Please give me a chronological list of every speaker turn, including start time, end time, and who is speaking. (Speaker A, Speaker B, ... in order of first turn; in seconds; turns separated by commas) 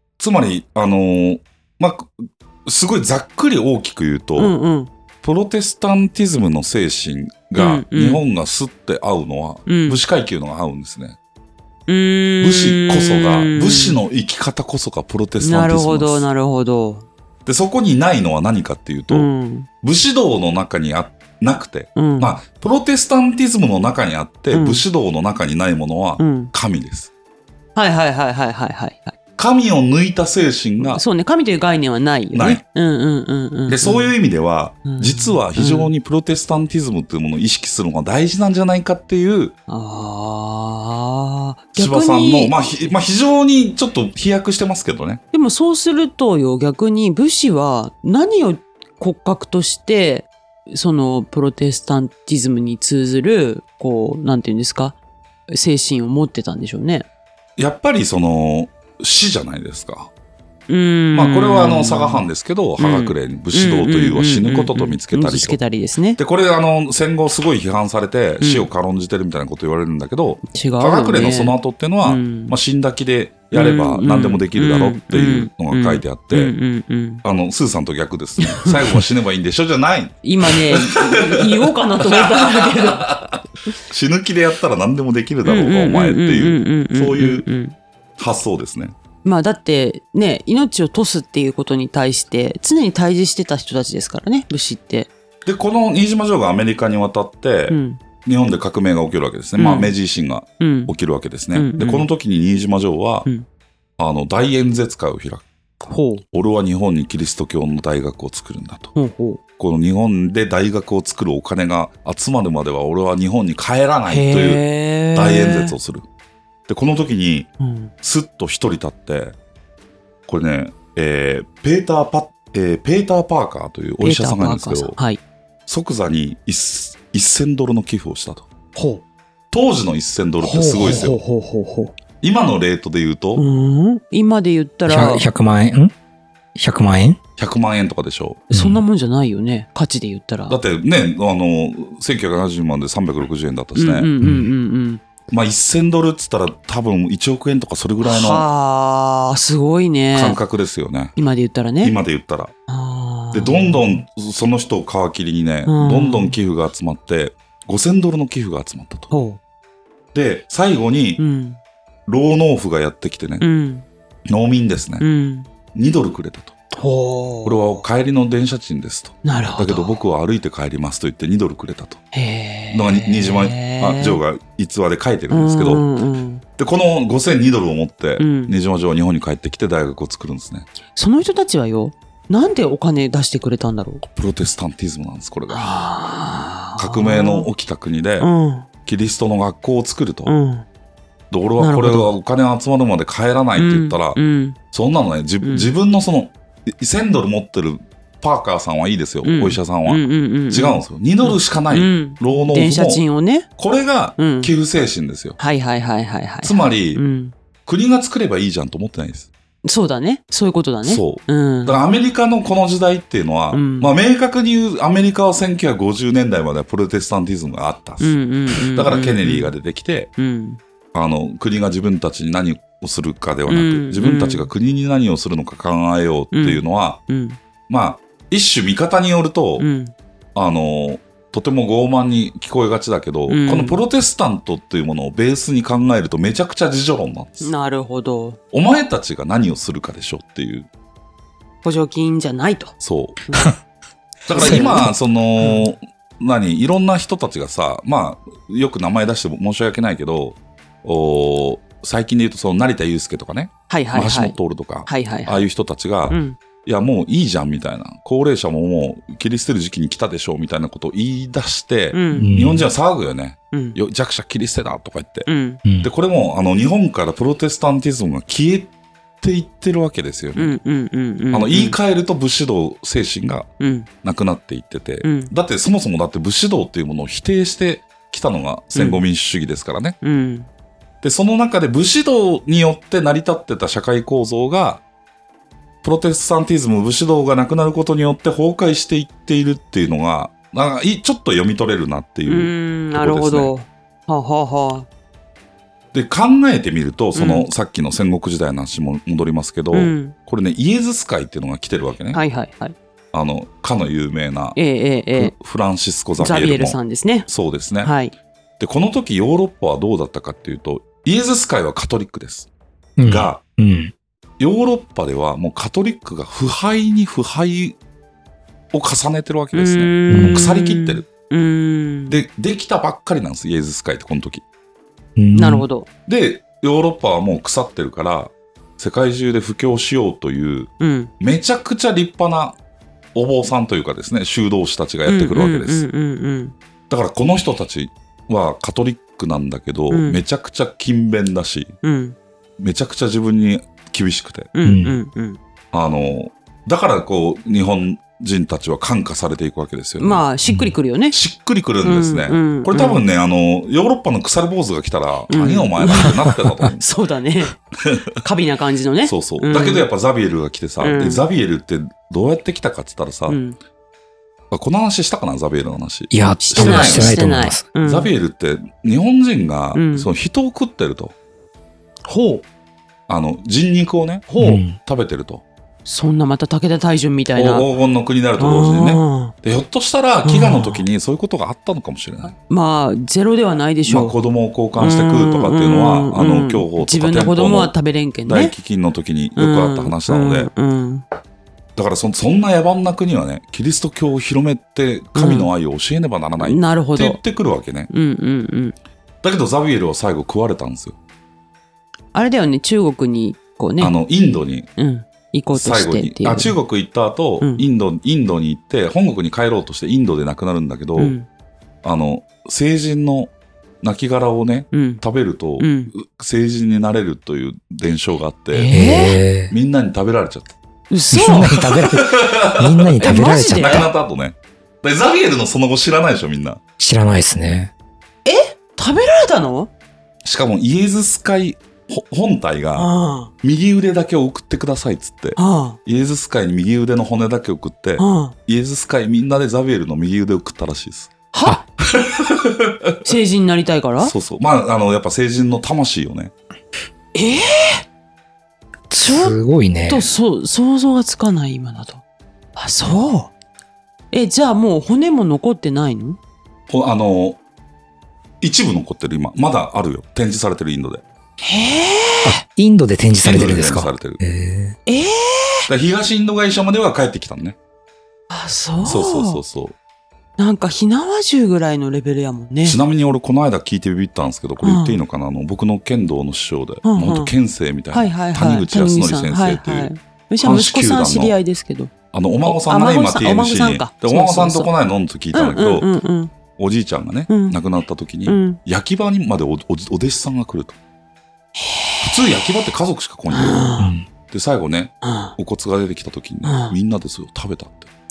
Speaker A: 0.2-2.1, Speaker A: 2.6-4.5, Speaker B: 4.4-4.9, Speaker A: 5.2-11.2, Speaker B: 7.5-8.2, Speaker B: 9.7-10.0, Speaker B: 11.9-14.0, Speaker A: 12.4-16.3, Speaker B: 15.4-17.1, Speaker A: 17.4-19.3, Speaker B: 19.1-19.7, Speaker A: 19.8-27.1, Speaker B: 21.9-22.4, Speaker B: 24.5-24.8, Speaker B: 26.2-26.5, Speaker B: 27.8-29.1, Speaker A: 29.4-31.0, Speaker B: 30.8-34.1, Speaker A: 32.3-32.6, Speaker A: 33.7-39.5, Speaker B: 34.9-35.9, Speaker B: 39.7-42.9, Speaker A: 41.7-45.2, Speaker B: 45.3-55.0, Speaker B: 55.5-57.0, Speaker A: 57.6-60.1, Speaker B: 60.7-62.3, Speaker A: 61.1-65.6, Speaker B: 62.8-66.2, Speaker A: 66.2-76.5, Speaker B: 68.4-68.7, Speaker B: 70.5-72.5, Speaker B: 73.5-77.2, Speaker A: 77.2-83.3, Speaker B: 78.4-79.0, Speaker B: 80.2-83.2, Speaker A: 83.9-87.5, Speaker B: 85.4-87.8, Speaker A: 88.2-88.9, Speaker B: 89.2-95.1, Speaker A: 95.4-103.3, Speaker B: 97.7-98.0, Speaker B: 99.6-99.9, Speaker B: 100.6-100.9, Speaker B: 101.5-102.1, Speaker A: 104.0-105.4, Speaker B: 105.8-106.2, Speaker A: 106.3-108.9, Speaker B: 108.9-109.4, Speaker A: 109.6-116.0, Speaker B: 114.1-115.7, Speaker A: 116.7-117.5, Speaker B: 117.6-117.9, Speaker A: 118.0-119.3, Speaker A: 120.3-125.0, Speaker B: 124.0-125.2, Speaker A: 125.7-128.5, Speaker B: 128.7-129.0, Speaker A: 129.5-131.2, Speaker B: 130.4-131.9, Speaker A: 132.2-133.4, Speaker B: 133.3-135.3, Speaker C: 134.9-135.9, Speaker C: 136.6-137.2, Speaker A: 137.4-138.5, Speaker B: 138.5-140.6, Speaker C: 138.5-138.8, Speaker A: 140.5-144.1, Speaker B: 143.7-145.0, Speaker C: 144.2-144.5, Speaker A: 145.3-148.4, Speaker B: 148.0-150.4, Speaker A: 150.1-151.2, Speaker B: 151.2-151.9, Speaker A: 151.8-152.5, Speaker B: 152.7-154.0, Speaker A: 153.3-159.1, Speaker B: 155.7-156.3, Speaker B: 159.1-159.4, Speaker A: 160.1-161.2, Speaker B: 161.2-161.6, Speaker A: 162.1-163.4, Speaker B: 163.4-163.8, Speaker A: 164.3-165.1, Speaker B: 165.0-165.5, Speaker A: 165.7-166.5, Speaker B: 166.7-167.8, Speaker A: 167.4-172.0, Speaker B: 169.2-170.0, Speaker B: 172.1-174.2, Speaker A: 172.7-175.8, Speaker B: 175.3-176.4, Speaker A: 176.6-180.7, Speaker B: 178.2-178.5, Speaker B: 180.9-184.0, Speaker A: 184.0-185.9, Speaker B: 185.5-187.5, Speaker A: 186.8-188.3, Speaker B: 188.2-188.7, Speaker A: 188.8-190.3, Speaker B: 190.2-190.7, Speaker A: 191.3-194.2, Speaker B: 191.6-192.1, Speaker B: 193.6-194.6, Speaker A: 194.7-203.0, Speaker B: 195.4-195.7, Speaker B: 199.2-203.5, Speaker A: 203.6-205.4, Speaker B: 204.2-204.5, Speaker B: 205.4-207.3, Speaker A: 206.4-207.0, Speaker A: 207.7-209.3, Speaker B: 209.6-211.8, Speaker A: 210.8-220.1, Speaker B: 213.5-213.9, Speaker B: 218.0-219.5, Speaker B: 220.2-220.6, Speaker A: 220.9-227.0, Speaker B: 223.5-224.5, Speaker B: 226.3-227.4, Speaker A: 227.7-229.7, Speaker B: 229.6-229.9, Speaker A: 230.3-237.5, Speaker B: 233.3-233.8, Speaker B: 237.4-238.4, Speaker A: 238.5-240.7, Speaker B: 241.6-242.7, Speaker A: 242.8-243.2, Speaker B: 243.2-243.5, Speaker A: 244.3-265.3, Speaker B: 244.3-245.7, Speaker C: 244.4-244.9, Speaker B: 253.7-254.3, Speaker B: 254.9-255.4, Speaker B: 256.1-256.4, Speaker B: 261.9-262.3, Speaker C: 262.1-262.7, Speaker B: 263.5-263.8, Speaker B: 265.3-265.6, Speaker A: 265.8-270.6, Speaker B: 270.4-271.8, Speaker A: 271.3-273.5, Speaker B: 273.6-273.9, Speaker A: 274.0-280.0, Speaker B: 275.0-275.3, Speaker B: 278.7-279.0, Speaker B: 280.0-280.5, Speaker A: 281.0-284.8, Speaker A: 285.8-293.5, Speaker B: 292.3-294.9, Speaker A: 295.9-302.2, Speaker B: 297.1-297.5, Speaker B: 299.7-300.1, Speaker B: 302.1-302.7, Speaker A: 303.1-304.6, Speaker B: 304.5-305.3, Speaker A: 305.1-307.9, Speaker B: 306.2-307.3, Speaker B: 307.8-308.1, Speaker A: 308.6-312.5, Speaker C: 313.0-313.9, Speaker A: 313.0-313.4, Speaker A: 314.4-317.8, Speaker A: 318.7-321.0, Speaker B: 319.5-322.2, Speaker C: 320.1-320.4, Speaker A: 322.1-324.4, Speaker C: 325.2-325.6, Speaker B: 325.3-325.9, Speaker A: 326.1-332.6, Speaker B: 330.8-331.1, Speaker A: 333.1-335.9, Speaker B: 335.1-336.5, Speaker A: 336.9-341.7, Speaker B: 339.9-340.2, Speaker B: 341.8-342.1, Speaker A: 342.6-344.5, Speaker B: 344.5-345.4, Speaker C: 344.6-345.0, Speaker A: 345.7-350.2, Speaker B: 350.0-351.1, Speaker C: 350.5-350.7, Speaker A: 351.1-356.9, Speaker B: 351.8-353.0, Speaker B: 355.3-357.6, Speaker A: 357.8-358.1, Speaker B: 358.2-359.9, Speaker A: 359.0-363.4, Speaker B: 360.8-361.2, Speaker B: 363.3-363.6, Speaker A: 364.5-367.2, Speaker C: 366.1-367.6, Speaker B: 366.4-368.1, Speaker A: 367.8-371.1, Speaker B: 369.7-370.1, Speaker B: 372.1-372.4, Speaker A: 373.1-375.4, Speaker B: 374.3-374.6, Speaker C: 374.4-374.8, Speaker B: 375.8-377.7, Speaker A: 377.4-382.3, Speaker B: 378.4-379.3, Speaker B: 380.2-380.8, Speaker B: 382.2-384.1, Speaker A: 383.9-387.7, Speaker B: 384.8-388.5, Speaker A: 388.2-390.5, Speaker B: 389.4-391.0, Speaker A: 391.8-397.9, Speaker B: 395.1-395.5, Speaker B: 396.4-397.2, Speaker B: 397.9-398.7, Speaker A: 399.2-400.9, Speaker B: 402.1-403.9, Speaker A: 403.8-404.7, Speaker B: 404.8-406.6, Speaker A: 405.5-411.1, Speaker B: 411.0-411.3, Speaker A: 411.8-419.0, Speaker B: 414.7-415.0, Speaker B: 415.6-415.9, Speaker B: 418.5-419.2, Speaker C: 418.7-419.5, Speaker A: 419.5-420.5, Speaker B: 420.9-421.6, Speaker C: 421.1-423.9, Speaker A: 421.5-426.6, Speaker B: 423.0-423.9, Speaker C: 426.8-427.7, Speaker B: 428.2-429.7, Speaker A: 430.2-432.9, Speaker B: 432.8-433.3, Speaker A: 433.4-441.1, Speaker B: 435.4-435.8, Speaker B: 438.0-438.3, Speaker B: 441.3-441.6, Speaker A: 441.8-443.1, Speaker B: 443.0-444.1, Speaker A: 444.0-446.3, Speaker B: 447.1-447.8, Speaker C: 448.9-450.1, Speaker B: 448.9-449.4, Speaker B: 449.9-452.0, Speaker B: 452.6-453.3, Speaker B: 454.1-456.2, Speaker A: 456.7-457.4, Speaker A: 458.4-461.0, Speaker B: 461.4-462.4, Speaker C: 462.2-464.8, Speaker A: 463.2-464.2, Speaker B: 464.9-465.7, Speaker A: 465.7-467.6, Speaker B: 468.3-469.4, Speaker A: 468.8-469.7, Speaker B: 470.4-472.8, Speaker A: 472.6-479.9, Speaker B: 474.6-475.0, Speaker B: 476.8-477.3, Speaker B: 477.9-481.9, Speaker A: 480.4-481.4, Speaker A: 482.1-485.9, Speaker B: 482.4-484.7, Speaker B: 485.3-486.3, Speaker A: 486.6-490.8, Speaker B: 487.3-487.6, Speaker B: 488.2-488.6, Speaker B: 491.6-492.2, Speaker A: 492.0-493.7, Speaker B: 493.3-493.9, Speaker C: 493.8-494.1, Speaker A: 494.3-497.9, Speaker B: 495.0-495.4, Speaker B: 496.4-496.8